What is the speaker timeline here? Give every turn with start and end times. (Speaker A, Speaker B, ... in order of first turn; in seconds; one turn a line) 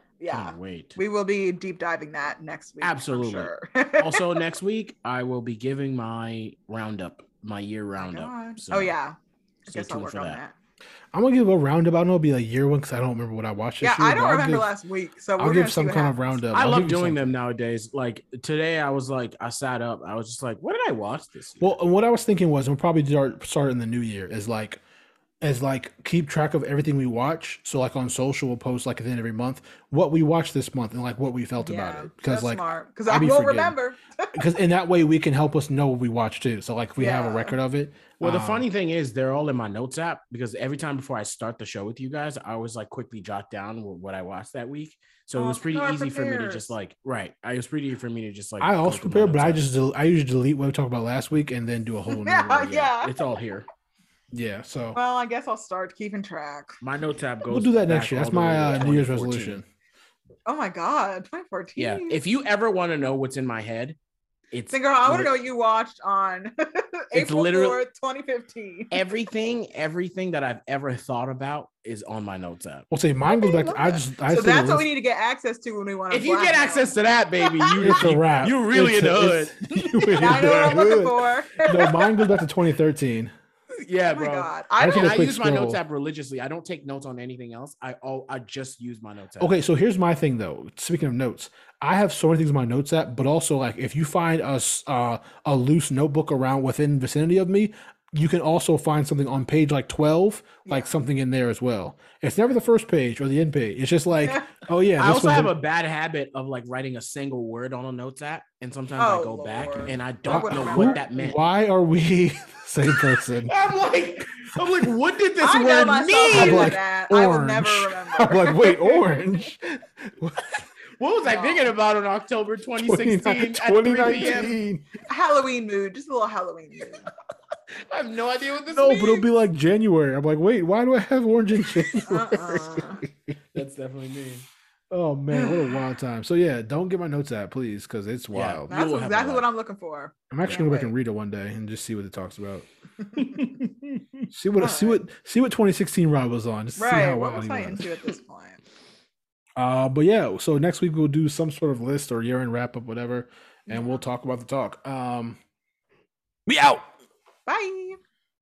Speaker A: 0.2-4.4
Speaker B: 0.3-1.0
Speaker B: 2.8-8.9
Speaker A: 8.0-10.6
Speaker B: 9.7-10.4
Speaker C: 11.1-14.7
Speaker A: 13.8-16.4
Speaker C: 15.4-17.2
Speaker B: 16.5-21.8
Speaker C: 21.6-24.8
Speaker C: 25.4-33.8
Speaker A: 31.6-34.4
Speaker C: 34.3-38.7
Speaker A: 37.0-37.6
Speaker B: 38.2-49.6
Speaker A: 45.4-46.7
Speaker C: 48.6-52.7
Speaker A: 52.1-53.2
Speaker B: 52.5-53.7
Speaker C: 54.3-55.0
Speaker A: 54.9-56.8
Speaker B: 56.8-59.6
Speaker C: 57.5-59.6
Speaker A: 60.5-62.2
Speaker B: 61.8-64.0
Speaker B: 64.5-65.4
Speaker A: 64.7-69.0
Speaker B: 67.1-67.8
Speaker B: 68.9-72.9
Speaker C: 72.9-74.9
Speaker A: 73.3-78.0
Speaker B: 76.1-80.5
Speaker C: 77.8-83.3
Speaker A: 80.2-82.3
Speaker B: 83.9-89.5
Speaker A: 84.0-85.3
Speaker C: 84.8-85.8
Speaker C: 89.4-105.5
Speaker A: 100.7-100.9
Speaker A: 104.3-104.5
Speaker B: 105.0-111.4
Speaker A: 109.0-111.0
Speaker C: 110.3-113.5
Speaker B: 113.5-116.8
Speaker A: 115.4-119.0
Speaker C: 116.3-120.6
Speaker B: 121.0-124.5
Speaker A: 121.2-121.7
Speaker C: 122.8-124.9
Speaker A: 125.1-127.1
Speaker B: 127.9-129.3
Speaker C: 128.7-133.3
Speaker A: 132.1-133.0
Speaker B: 133.5-134.5
Speaker C: 134.9-138.7
Speaker A: 135.3-135.6
Speaker B: 138.3-139.5
Speaker A: 138.7-140.9
Speaker C: 140.3-142.7
Speaker A: 143.0-143.4
Speaker C: 144.3-147.9
Speaker A: 144.6-145.0
Speaker A: 146.8-148.6
Speaker C: 149.6-155.4
Speaker A: 153.7-154.0
Speaker C: 156.5-156.8
Speaker A: 157.5-158.0